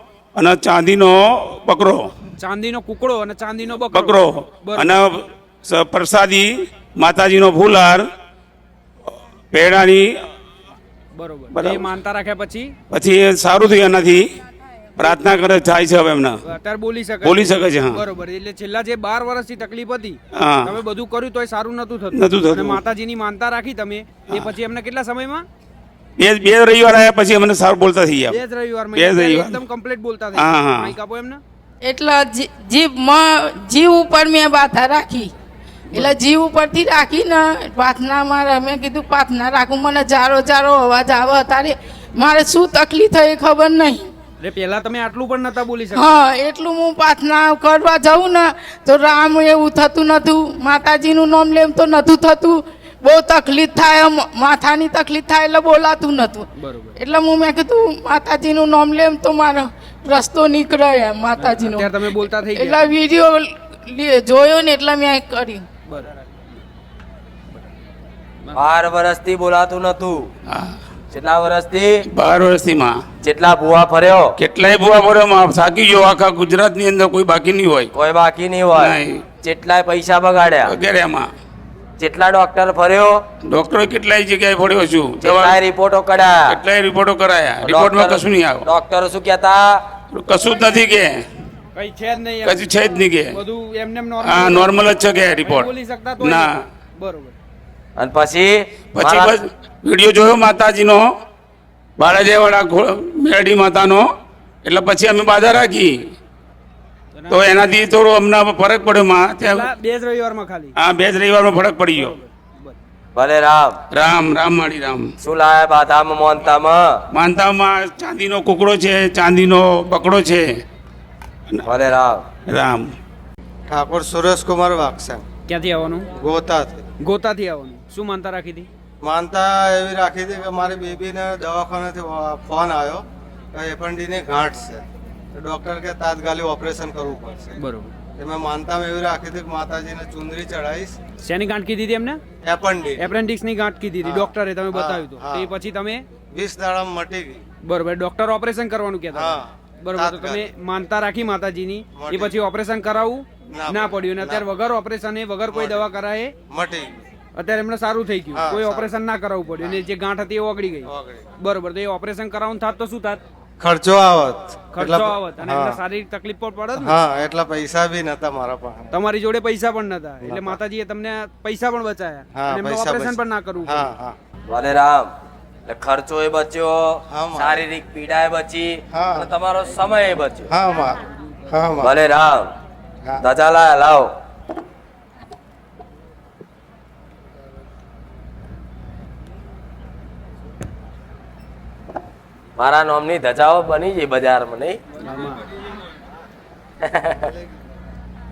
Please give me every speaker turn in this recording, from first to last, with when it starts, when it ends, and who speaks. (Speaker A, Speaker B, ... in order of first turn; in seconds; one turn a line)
Speaker A: 0.4-2.1
Speaker B: 2.4-5.0
Speaker A: 3.9-8.1
Speaker A: 9.5-10.1
Speaker B: 11.1-12.8
Speaker A: 11.5-11.9
Speaker A: 12.9-14.3
Speaker A: 15.0-16.4
Speaker B: 16.4-25.5
Speaker A: 17.2-18.0
Speaker A: 20.3-20.7
Speaker A: 22.1-22.8
Speaker A: 26.2-28.4
Speaker B: 28.3-31.4
Speaker A: 28.9-29.6
Speaker A: 30.4-30.9
Speaker C: 31.8-35.3
Speaker B: 35.9-36.2
Speaker C: 35.9-44.1
Speaker B: 44.4-46.2
Speaker C: 45.9-65.7
Speaker B: 56.5-57.0
Speaker B: 61.4-62.9
Speaker B: 65.9-66.2
Speaker D: 68.5-70.2
Speaker D: 71.1-72.0
Speaker A: 72.1-73.0
Speaker D: 73.2-74.3
Speaker A: 74.4-77.9
Speaker D: 77.9-80.7
Speaker A: 78.8-79.2
Speaker A: 80.6-81.3
Speaker D: 82.0-83.2
Speaker A: 83.5-85.6
Speaker D: 85.2-86.6
Speaker A: 86.5-88.7
Speaker D: 87.6-89.8
Speaker A: 90.1-91.2
Speaker B: 91.8-92.8
Speaker A: 92.4-93.4
Speaker B: 93.3-97.3
Speaker A: 94.2-95.7
Speaker A: 96.2-96.6
Speaker D: 98.0-99.3
Speaker A: 99.0-101.1
Speaker A: 102.0-104.1
Speaker A: 104.6-105.9
Speaker B: 107.2-107.7
Speaker A: 107.3-109.7
Speaker B: 109.4-110.8
Speaker A: 110.8-112.2
Speaker B: 112.0-112.8
Speaker D: 113.2-113.8
Speaker A: 113.9-115.1
Speaker D: 115.2-117.0
Speaker A: 117.1-120.6
Speaker D: 121.7-122.2
Speaker A: 122.5-122.9
Speaker E: 123.7-125.2
Speaker B: 125.5-126.1
Speaker E: 126.2-126.8
Speaker B: 127.0-128.7
Speaker E: 129.0-137.5
Speaker B: 137.6-137.9
Speaker E: 138.2-141.0
Speaker B: 141.2-142.2
Speaker E: 142.4-143.0
Speaker B: 143.0-146.1
Speaker E: 144.0-145.5
Speaker E: 146.3-147.4
Speaker B: 147.6-156.3
Speaker E: 149.2-150.5
Speaker E: 152.0-152.3
Speaker E: 153.5-154.4
Speaker E: 155.5-155.9
Speaker E: 156.5-157.1
Speaker B: 157.4-163.2
Speaker E: 158.4-158.9
Speaker E: 160.9-161.2
Speaker E: 163.6-165.8
Speaker B: 164.7-166.9
Speaker E: 166.8-168.9
Speaker B: 168.9-173.9
Speaker E: 170.2-170.6
Speaker E: 172.3-174.2
Speaker D: 174.5-175.1
Speaker D: 175.7-180.5
Speaker E: 177.1-177.6
Speaker E: 178.9-179.3
Speaker E: 180.5-181.9
Speaker D: 181.8-182.5
Speaker D: 183.2-184.1
Speaker D: 192.6-194.8
Speaker B: 195.0-195.4
Speaker D: 196.8-197.3